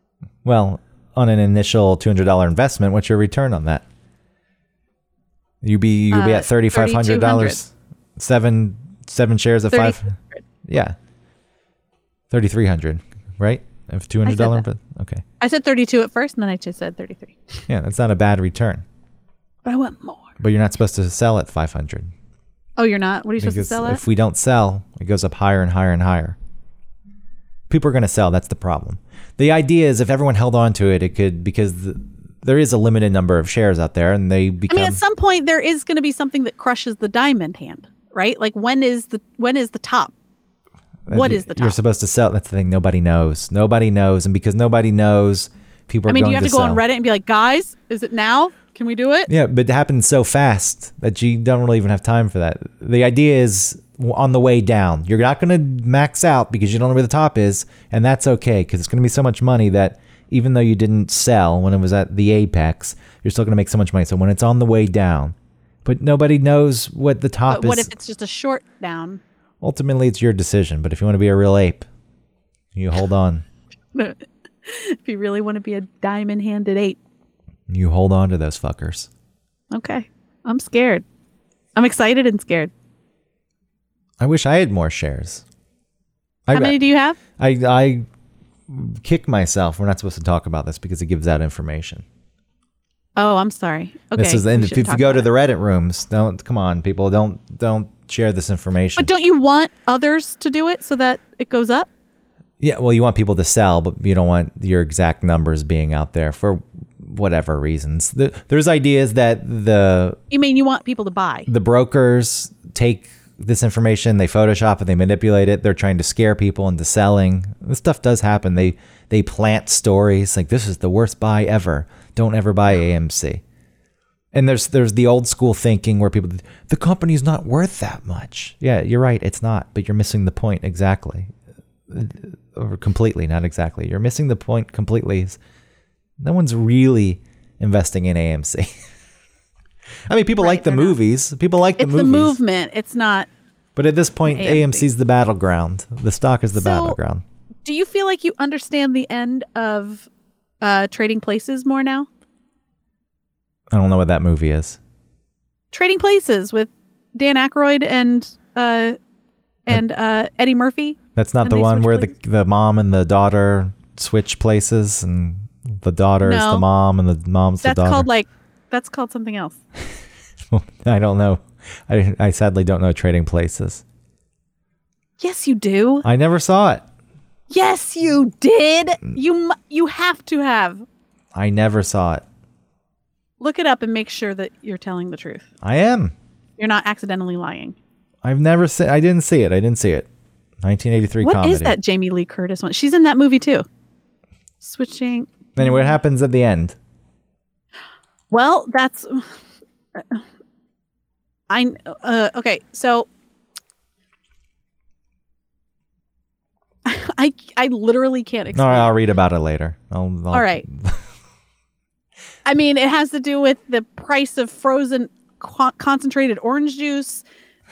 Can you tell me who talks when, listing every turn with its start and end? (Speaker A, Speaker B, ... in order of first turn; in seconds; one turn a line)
Speaker A: 0.5-3.9
Speaker A: 5.6-10.9
Speaker B: 6.1-7.6
Speaker B: 9.7-10.4
Speaker A: 12.3-15.2
Speaker B: 14.2-14.6
Speaker B: 15.4-17.6
Speaker A: 17.7-18.9
Speaker B: 19.6-20.3
Speaker A: 20.4-22.1
Speaker B: 22.8-24.0
Speaker A: 23.4-26.4
Speaker A: 27.7-35.0
Speaker B: 34.7-40.1
Speaker A: 41.1-46.8
Speaker B: 41.1-41.8
Speaker B: 46.1-49.3
Speaker A: 49.3-67.9
Speaker B: 67.5-69.2
Speaker A: 69.6-71.9
Speaker A: 72.7-73.4
Speaker B: 73.9-77.0
Speaker A: 77.7-79.1
Speaker B: 79.7-81.0
Speaker B: 81.8-82.7
Speaker A: 84.2-85.5
Speaker A: 86.5-86.8
Speaker B: 86.5-87.2
Speaker A: 87.4-88.1
Speaker A: 88.7-92.0
Speaker B: 93.2-95.3
Speaker A: 94.2-99.1
Speaker B: 99.0-101.9
Speaker A: 102.6-110.2
Speaker B: 110.3-111.5
Speaker A: 111.5-123.4
Speaker A: 124.3-131.3
Speaker A: 131.9-135.4
Speaker A: 136.2-138.7
Speaker A: 140.1-142.4
Speaker B: 140.4-141.0
Speaker B: 141.8-143.3
Speaker A: 143.8-147.2
Speaker B: 144.3-144.9
Speaker B: 146.5-147.0
Speaker B: 147.6-150.1
Speaker B: 150.6-152.1
Speaker A: 153.7-154.8
Speaker B: 155.7-158.9
Speaker B: 159.7-162.1
Speaker A: 161.1-168.1
Speaker B: 166.2-166.6
Speaker B: 167.6-169.6
Speaker A: 170.5-173.8
Speaker B: 175.2-176.1
Speaker A: 176.0-176.8
Speaker B: 177.5-180.8
Speaker A: 181.3-182.2
Speaker B: 183.4-185.5
Speaker A: 185.6-186.1
Speaker B: 186.6-187.8
Speaker A: 188.2-190.1
Speaker A: 190.6-191.8
Speaker B: 191.2-193.6
Speaker B: 194.6-195.9
Speaker A: 195.6-196.8
Speaker B: 198.3-199.3
Speaker B: 199.9-200.2
Speaker B: 201.5-203.1
Speaker B: 206.8-208.9
Speaker A: 208.5-211.0
Speaker B: 210.3-210.6
Speaker B: 212.4-217.2